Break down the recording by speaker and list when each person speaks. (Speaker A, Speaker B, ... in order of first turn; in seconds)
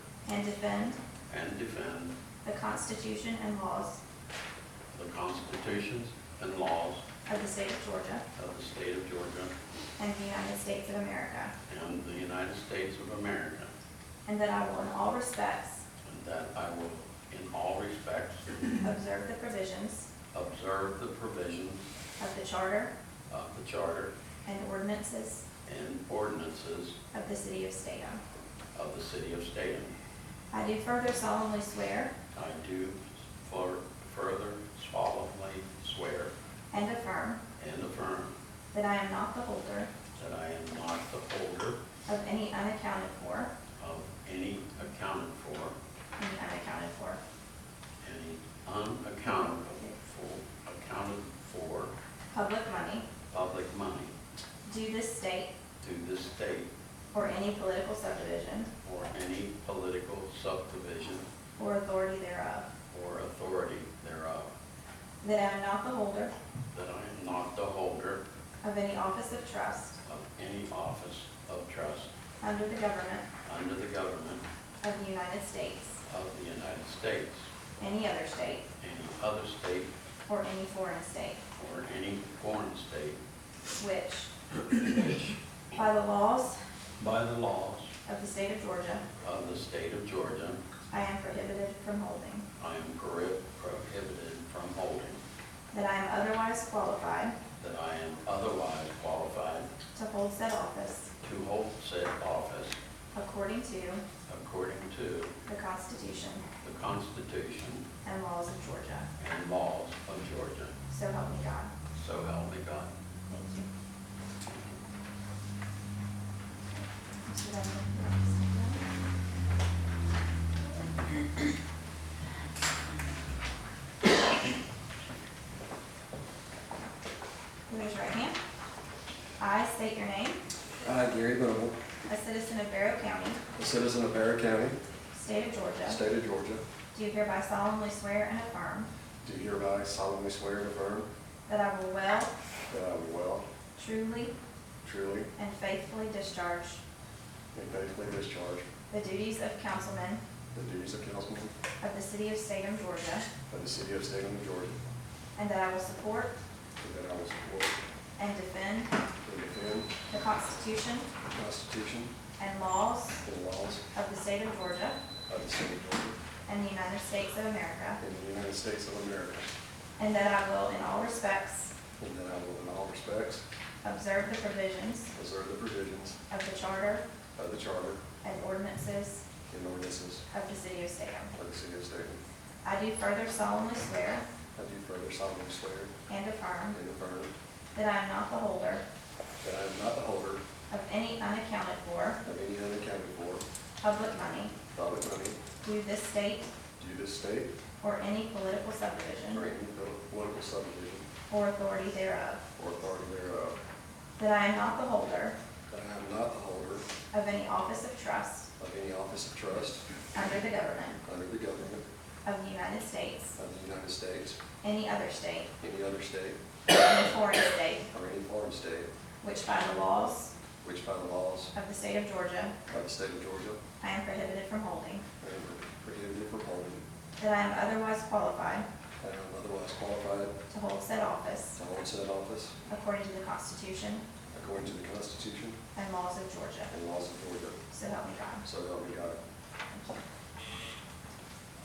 Speaker A: 0.2-1.0, 2.4-4.0, 7.3-8.2, 10.0-11.5, 14.2-15.8, 18.8-20.1, 22.2-22.9, 24.4-25.4, 27.1-28.2, 30.5-32.1, 36.7-37.4, 38.7-39.9, 42.1-43.5, 46.2-47.2, 49.3-49.9, 52.3-53.1, 54.7-55.5, 57.1-58.7, 61.6-62.7, 65.2-66.3, 68.6-70.0, 72.4-73.2, 74.8-76.0, 77.8-78.7, 80.3-81.4, 83.8-85.2, 85.7-86.6, 88.0-89.0, 90.9-92.4, 95.7-97.3, 99.9-101.1, 103.1-104.0, 105.5-106.4, 108.0-109.1, 110.9-111.7, 113.3-113.7, 116.8-118.8, 127.7-128.4, 129.4-130.4, 132.1-133.4, 135.1-136.0, 136.9-138.9, 141.5-142.3, 143.8-144.3, 145.3-146.8, 148.9-150.2, 151.8-153.3, 155.3-156.3, 158.2-158.9, 160.1-161.1, 162.4-163.2, 163.9-165.0, 166.5-168.0, 170.0-171.7, 173.8-175.1, 176.3-177.0, 178.2-179.2, 180.3-181.3, 182.6-184.2, 186.1-186.8, 187.7-188.8, 190.7-192.2, 193.8-194.5, 195.6-196.5, 197.8-199.5, 201.3-202.4, 204.2-205.3, 207.1-208.5, 210.1-211.0, 212.2-213.4, 214.6-215.5, 216.7-217.9, 219.2-220.3, 221.5-222.5, 223.8-225.0, 227.2-228.7, 230.5-231.6, 232.7-234.0, 235.8-236.7, 237.7-238.4
Speaker B: 1.3-2.1, 4.9-7.0, 8.3-9.5, 11.7-13.7, 16.0-18.8, 20.3-21.8, 23.3-24.1, 25.6-26.9, 28.7-29.9, 32.3-36.3, 37.6-38.3, 40.1-41.8, 43.8-45.7, 48.0-51.9, 53.3-54.1, 55.8-56.7, 58.8-61.2, 62.9-64.5, 66.7-68.2, 70.0-72.1, 73.4-74.4, 76.0-77.5, 78.8-79.9, 81.6-83.2, 87.0-87.9, 89.2-90.6, 92.6-95.2, 97.6-99.7, 101.2-102.8, 104.2-105.3, 106.6-107.8, 109.2-110.8, 111.9-112.9
Speaker C: 130.8-131.8, 133.5-134.8, 135.8-136.6, 139.2-141.1, 142.7-143.5, 144.8-145.3, 147.5-148.6, 150.5-151.5, 153.5-154.8, 156.8-157.8, 159.2-159.9, 161.3-162.1, 163.2-163.8, 165.3-166.2, 168.0-169.5, 172.0-173.4, 175.1-176.2, 177.4-178.0, 179.5-180.2, 181.3-182.2, 184.6-185.9, 186.7-187.3, 189.4-190.4, 192.2-193.4, 194.7-195.4, 196.8-197.5, 199.3-201.1, 202.6-203.6, 205.7-206.8, 208.6-209.8, 211.0-211.8, 213.4-214.4, 215.6-216.4, 217.9-218.9, 220.6-221.5, 222.7-223.6, 225.2-226.8, 229.0-230.3, 231.6-232.6, 234.3-235.6, 236.7-237.6, 238.4-239.2